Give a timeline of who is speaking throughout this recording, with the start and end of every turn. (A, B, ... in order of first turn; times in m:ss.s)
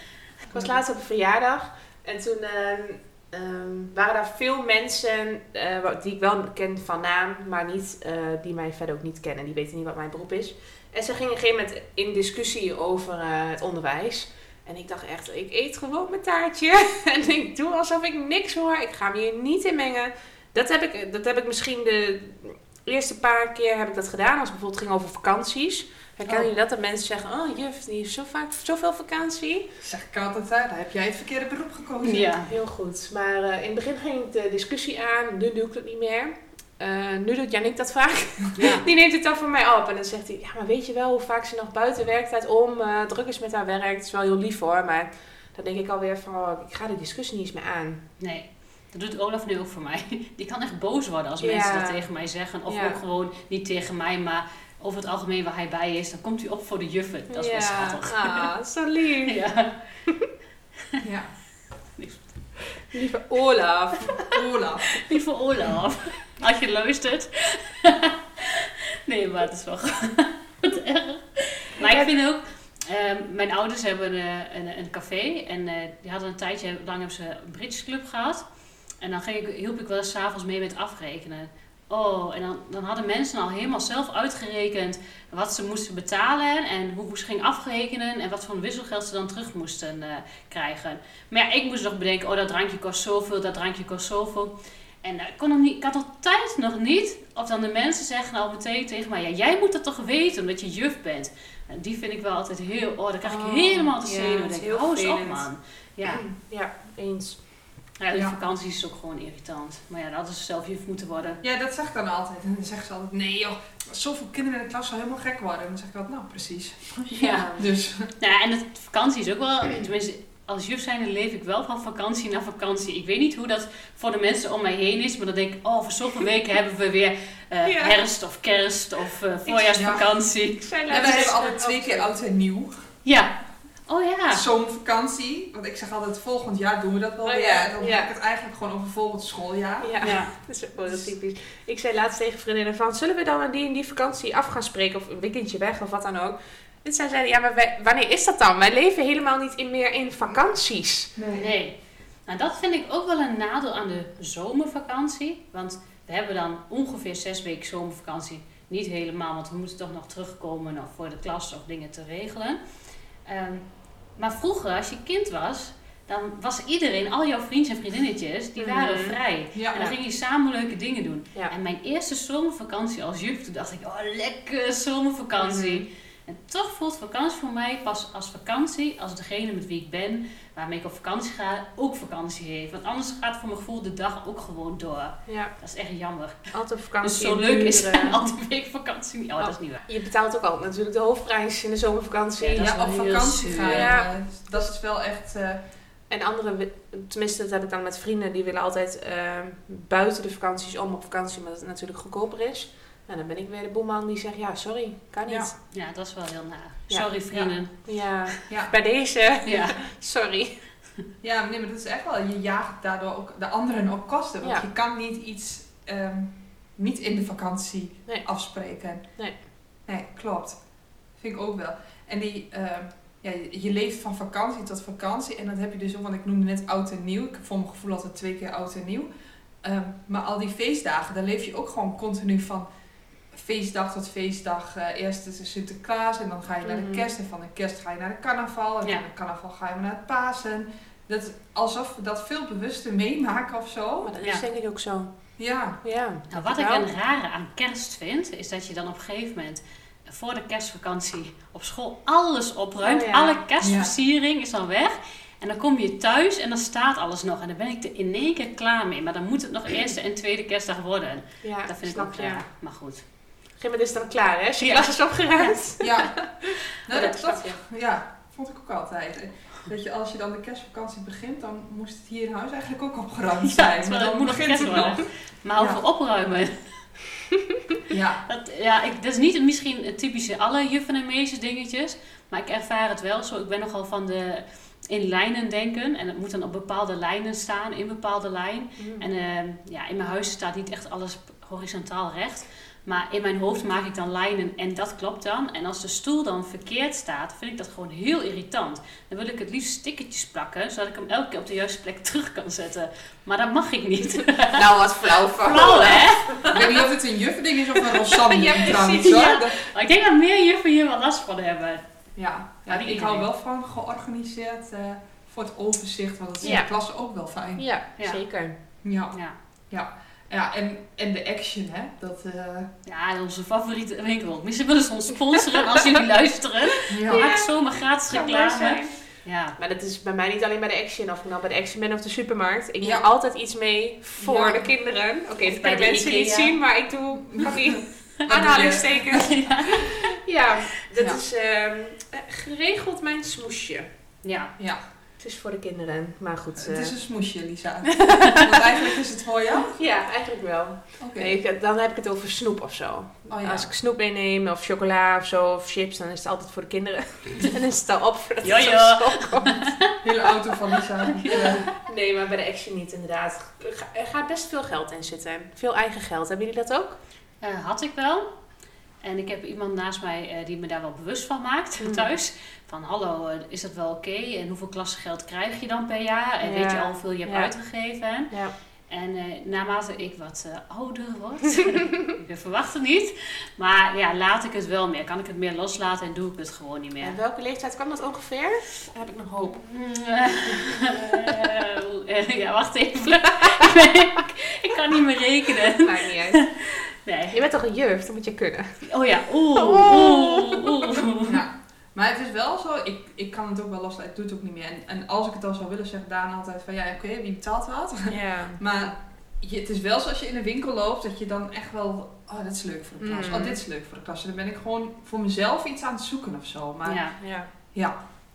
0:00.5-0:29.7 A
0:29.8-0:32.3 B
0:32.0-0:32.5 C
0:32.5-0:48.0 A
0:38.6-0:38.8 C
0:48.2-0:58.5 C
0:51.4-0:52.1 A
0:52.7-0:53.0 A
0:57.3-0:59.4 A
0:59.3-0:59.8 C
1:01.0-1:01.3 B
1:02.0-1:02.4 C
1:02.9-1:04.2 A
1:04.3-1:05.0 B
1:05.1-1:18.4 C
1:11.8-1:12.1 A
1:19.0-1:46.2 C
1:43.2-1:45.5 A
1:46.0-1:47.5 A
1:48.0-1:51.4 C
1:51.4-1:58.1 B
1:57.1-1:57.5 C
1:57.2-1:57.7 A
1:58.1-2:11.3 C
2:07.6-2:08.0 A
2:09.4-2:10.0 A
2:09.7-2:10.0 B
2:10.5-2:12.1 A
2:10.9-2:12.9 B
2:13.0-2:14.4 C
2:14.3-2:20.0 B
2:17.2-2:18.1 A
2:19.8-2:31.2 A
2:20.0-2:20.3 C
2:31.2-2:31.5 B
2:31.3-2:42.6 C
2:43.2-3:09.8 C
2:48.6-2:49.2 A
2:49.5-2:50.0 B
2:55.4-2:55.8 A
3:05.3-3:05.5 A
3:06.5-3:08.2 A
3:09.4-3:12.7 A
3:12.4-3:13.9 C
3:12.6-3:15.6 B
3:13.5-3:14.6 A
3:16.1-3:25.6 A
3:25.2-3:25.5 B
3:25.7-3:28.3 C
3:26.9-3:30.7 A
3:28.5-3:28.7 B
3:29.4-3:29.8 C
3:31.2-3:49.1 B
3:38.0-3:38.5 A
3:49.6-3:52.7 B
3:53.3-4:04.1 B
3:56.6-3:57.1 A
4:04.0-4:06.8 A
4:05.4-4:05.8 B
4:06.3-4:23.0 C
4:12.8-4:13.4 A
4:13.6-4:13.9 B
4:21.4-4:22.5 A
4:23.6-4:27.6 A
4:24.6-4:25.5 C
4:25.8-4:35.0 B
4:33.4-4:36.6 C
4:35.6-4:35.8 B
4:37.9-4:38.2 B
4:38.3-5:06.5 C
4:48.8-4:49.0 A
5:04.5-5:06.8 A
5:06.5-5:09.6 B
5:08.0-5:09.5 A
5:08.9-5:11.8 C
5:12.2-5:17.7 B
5:12.6-5:13.2 C
5:16.4-5:16.8 A
5:17.6-5:18.5 A
5:18.8-5:19.2 B
5:19.7-5:22.7 B
5:22.8-5:29.6 C
5:26.9-5:27.2 B
5:27.0-5:43.9 A
5:34.2-5:34.7 B
5:35.4-5:36.6 C
5:37.2-5:39.3 B
5:39.0-5:40.1 C
5:44.2-5:44.5 C
5:45.2-5:46.9 A
5:46.6-5:49.7 B
5:48.0-5:48.5 A
5:49.7-5:59.7 A
5:51.0-5:51.3 B
5:53.3-5:53.7 B
5:58.4-5:59.9 C
6:00.0-6:01.7 B
6:01.1-6:01.7 C
6:01.7-6:07.0 A
6:07.4-6:08.3 C
6:09.0-6:18.3 C
6:11.8-6:12.1 A
6:16.4-6:17.6 A
6:18.3-6:18.5 A
6:18.9-6:27.2 C
6:27.0-6:29.6 A
6:29.5-6:37.4 C
6:35.7-6:36.5 A
6:37.3-6:40.8 A
6:38.9-6:41.4 C
6:41.2-6:58.0 B
6:48.1-6:48.6 A
6:53.0-6:53.6 A
6:56.8-6:57.2 C
6:57.2-6:57.5 A